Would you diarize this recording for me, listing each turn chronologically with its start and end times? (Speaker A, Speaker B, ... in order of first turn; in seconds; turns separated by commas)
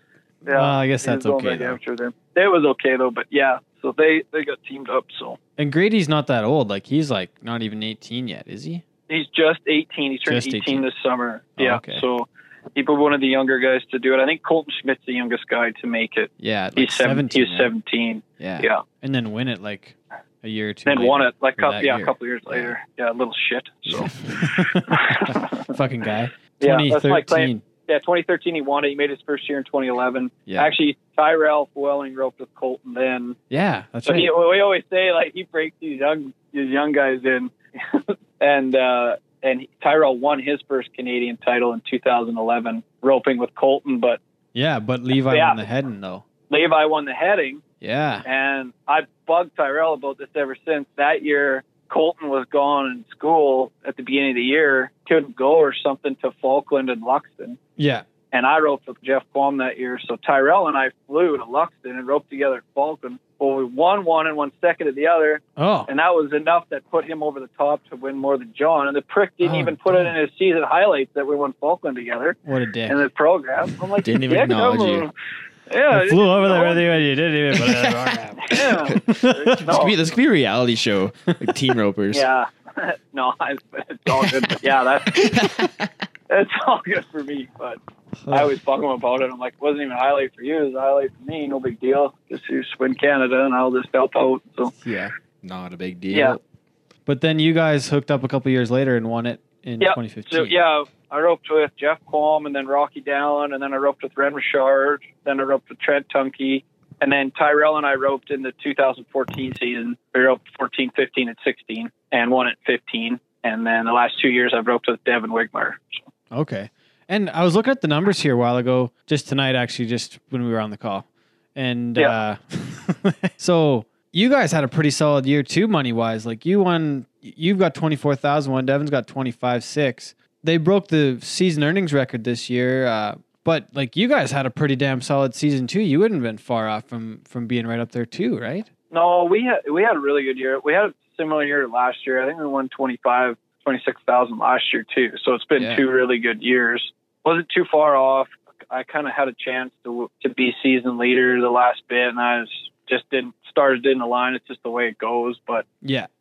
Speaker A: 0.4-5.4, Speaker B: 0.5-1.8, Speaker B: 5.6-8.8, Speaker A: 9.1-18.8, Speaker B: 10.3-10.8, Speaker B: 11.6-12.0, Speaker B: 16.4-17.7, Speaker B: 18.4-22.7, Speaker A: 20.9-25.7, Speaker B: 23.9-27.6, Speaker A: 26.6-33.4, Speaker B: 30.5-30.7, Speaker B: 33.5-34.3, Speaker A: 34.0-44.2, Speaker B: 44.5-46.2, Speaker A: 45.3-45.6, Speaker A: 46.5-47.6, Speaker B: 47.8-48.2, Speaker A: 48.2-57.6, Speaker B: 57.8-58.0, Speaker A: 58.3-75.1, Speaker B: 65.6-65.9, Speaker B: 69.4-70.1, Speaker B: 72.5-73.0, Speaker C: 74.0-75.1, Speaker A: 75.7-77.0, Speaker B: 75.9-79.6, Speaker A: 78.4-80.1, Speaker C: 79.6-82.2, Speaker A: 82.1-85.5, Speaker C: 85.0-85.9, Speaker A: 86.3-87.8, Speaker B: 88.2-88.5, Speaker A: 88.3-94.7, Speaker B: 94.8-95.1, Speaker C: 95.4-96.4, Speaker A: 96.1-96.4, Speaker B: 97.0-100.5, Speaker A: 99.8-116.0, Speaker B: 116.3-138.7, Speaker A: 138.9-155.6, Speaker B: 145.6-145.8, Speaker B: 155.8-156.1